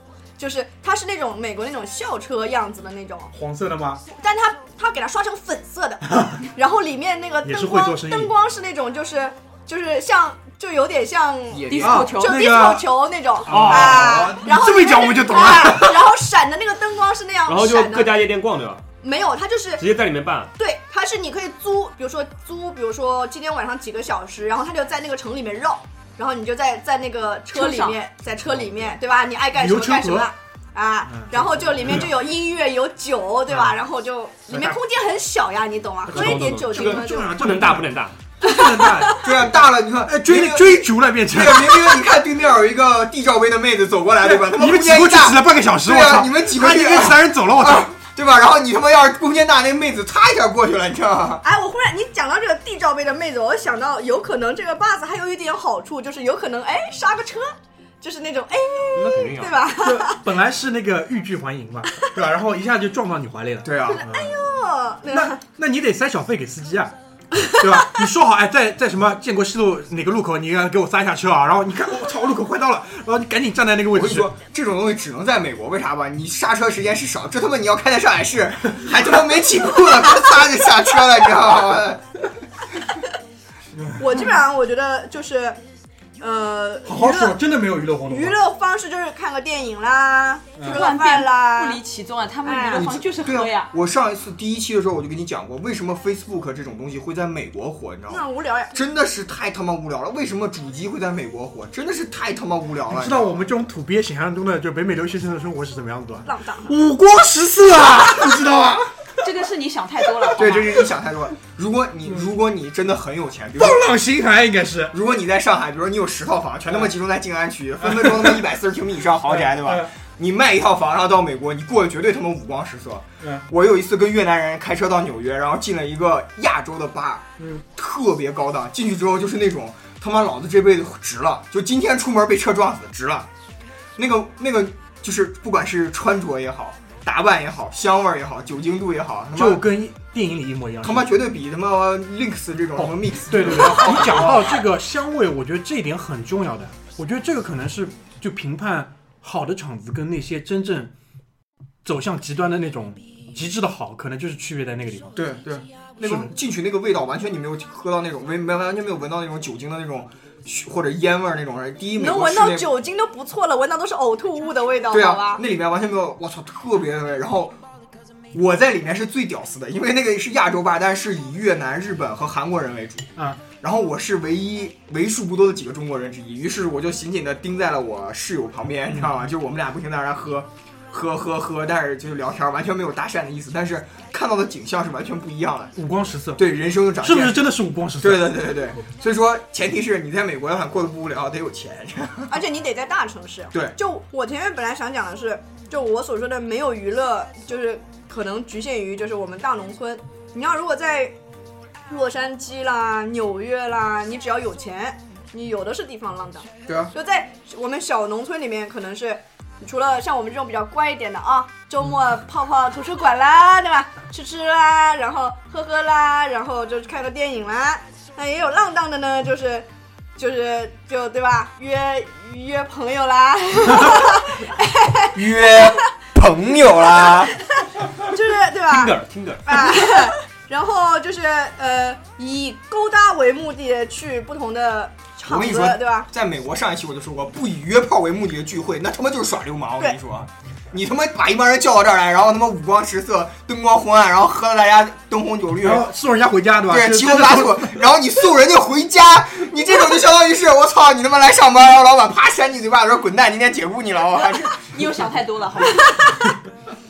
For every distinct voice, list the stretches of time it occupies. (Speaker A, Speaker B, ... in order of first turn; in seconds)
Speaker A: 0.4-3.3, 4.2-18.2, 19.0-19.8, 20.6-37.4, 38.4-39.2, 51.4-60.2, 63.9-65.4, 84.0-85.6, 86.2-87.4, 88.1-91.8, 92.4-93.0, 98.1-98.7, 106.2-106.7, 161.9-165.4, 192.3-201.1, 201.9-225.8, 227.0-236.1, 255.7-256.3
Speaker B: 3.3-4.0, 6.1-6.5, 7.4-8.3, 11.8-12.9, 13.4-16.1, 29.6-30.3, 31.1-32.1, 36.1-42.1, 44.2-47.9, 59.8-64.4, 65.1-74.3, 83.8-84.4, 86.8-88.4, 90.6-90.8, 102.9-109.3, 113.6-114.9, 117.8-118.4, 119.3-119.9, 127.4-127.6, 139.3-141.1, 142.8-150.9, 151.8-155.2, 156.0-156.3, 173.2-173.4, 185.8-186.4, 187.0-188.6, 245.6-247.8
Speaker C: 11.5-12.1, 39.1-51.4, 63.6-64.0, 73.9-82.0, 92.7-103.5, 110.3-113.8, 114.9-133.3, 134.0-139.6, 140.8-144.6, 155.1-162.7, 164.9-167.6, 168.3-185.7, 186.3-192.4, 206.7-206.9, 225.1-227.3, 235.2-245.9, 246.7-255.0
Speaker D: 11.7-12.4, 27.5-28.0, 90.6-93.7, 109.2-110.8, 254.6-256.3
Speaker E: 13.5-14.2, 17.4-18.8, 19.8-20.5, 36.1-38.1, 58.9-59.6, 228.7-229.6